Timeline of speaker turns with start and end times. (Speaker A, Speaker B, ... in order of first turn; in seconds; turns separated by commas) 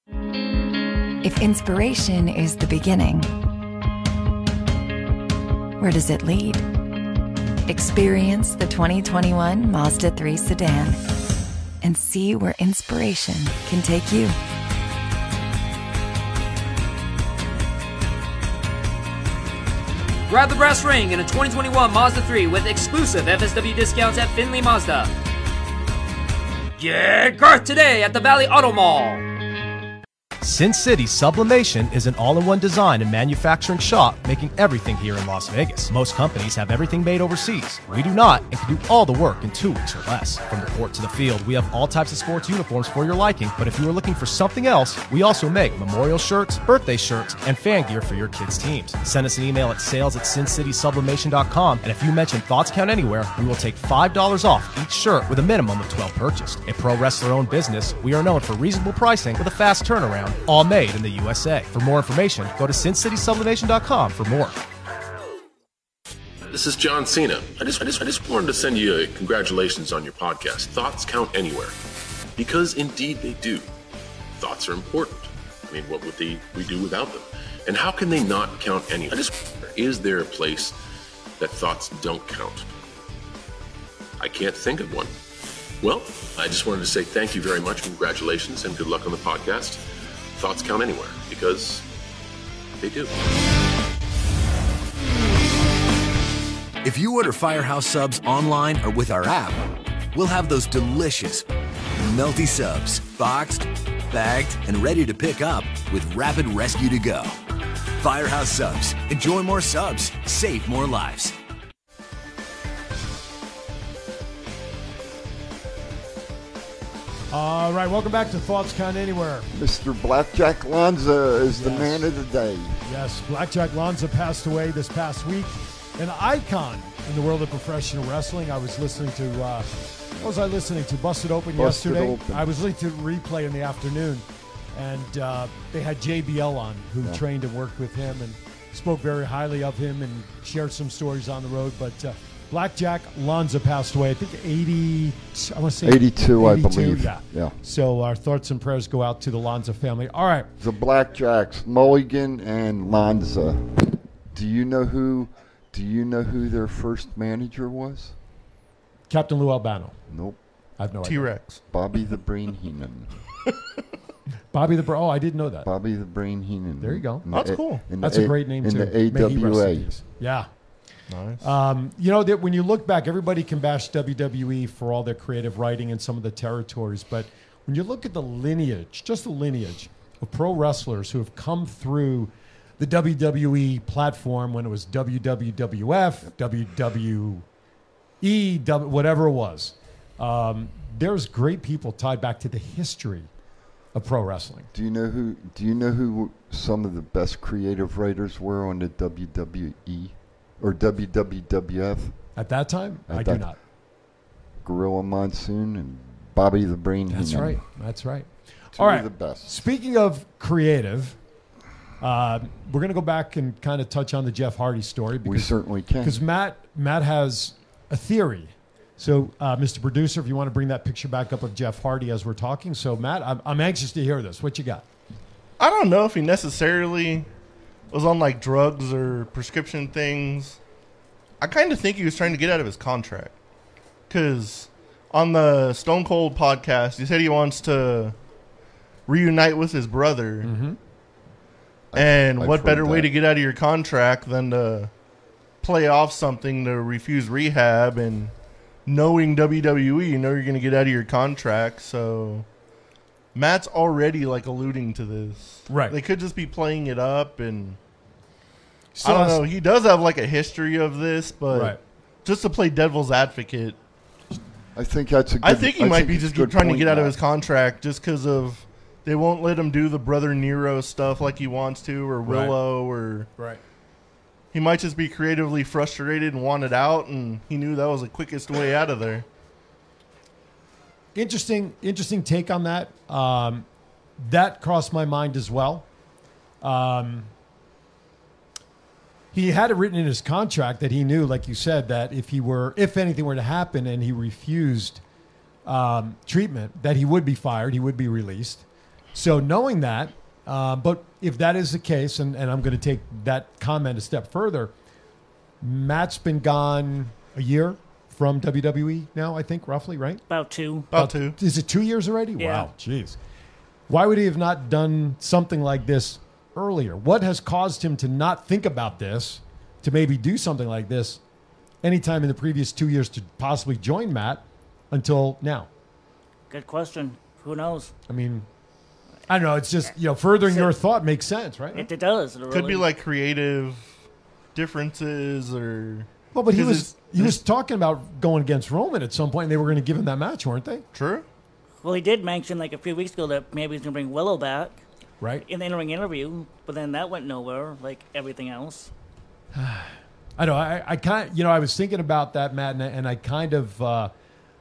Speaker A: 1.2-3.3, Speaker A: 5.8-6.6, Speaker A: 7.7-11.0, Speaker A: 11.8-14.4, Speaker B: 20.3-25.1, Speaker B: 26.8-29.2, Speaker C: 30.4-64.5, Speaker D: 66.5-71.7, Speaker D: 72.3-73.7, Speaker D: 74.4-80.8, Speaker D: 81.4-82.7, Speaker D: 84.2-85.1, Speaker D: 85.8-89.8, Speaker D: 90.3-91.8, Speaker D: 92.8-93.1, Speaker E: 96.8-101.4, Speaker E: 102.0-107.4, Speaker E: 108.0-111.3, Speaker F: 117.3-119.5, Speaker G: 119.5-122.8, Speaker F: 121.5-122.1, Speaker F: 122.8-150.5, Speaker G: 131.6-132.5, Speaker G: 145.8-147.5, Speaker G: 150.6-153.7, Speaker G: 154.3-158.1, Speaker F: 159.1-159.9, Speaker G: 160.1-160.4, Speaker F: 160.8-161.3, Speaker H: 161.0-161.6, Speaker G: 161.7-163.1, Speaker F: 164.5-165.7, Speaker G: 165.6-169.9, Speaker F: 166.8-167.2, Speaker H: 167.3-167.8, Speaker F: 168.0-170.5, Speaker H: 171.1-171.4, Speaker F: 171.4-187.4, Speaker F: 188.2-193.3, Speaker F: 193.9-194.7, Speaker G: 194.7-202.2, Speaker F: 202.3-203.6, Speaker G: 203.1-203.4, Speaker G: 204.6-207.6, Speaker F: 207.1-211.2, Speaker G: 208.8-209.5, Speaker F: 212.0-224.8, Speaker G: 215.2-216.2, Speaker H: 225.6-227.3, Speaker H: 227.9-230.6, Speaker H: 231.4-233.3, Speaker H: 234.1-238.2, Speaker H: 239.1-240.5, Speaker F: 240.4-240.8, Speaker G: 241.9-243.1, Speaker H: 241.9-244.9, Speaker H: 245.6-248.3, Speaker H: 248.8-252.5, Speaker H: 253.3-257.8, Speaker F: 255.7-256.0, Speaker F: 258.9-259.4, Speaker H: 259.0-263.8, Speaker F: 261.5-261.8, Speaker G: 264.7-267.1, Speaker H: 265.4-273.3, Speaker F: 272.2-272.6, Speaker H: 274.5-279.2, Speaker F: 281.1-283.6, Speaker F: 284.2-285.9, Speaker F: 286.6-287.3, Speaker F: 289.3-295.0, Speaker F: 295.6-304.7, Speaker F: 305.6-310.2, Speaker I: 310.3-310.9, Speaker H: 310.9-311.4, Speaker F: 310.9-313.2, Speaker I: 312.4-312.7, Speaker F: 313.9-321.2, Speaker F: 321.8-325.7, Speaker I: 326.5-327.9, Speaker F: 328.1-328.5, Speaker F: 329.3-331.8, Speaker I: 330.4-330.7, Speaker I: 331.7-332.9, Speaker H: 332.5-333.9, Speaker H: 334.5-337.4, Speaker F: 336.3-340.8, Speaker H: 340.9-341.2, Speaker I: 341.8-344.8, Speaker F: 345.2-345.4, Speaker I: 345.4-348.9, Speaker F: 349.5-354.1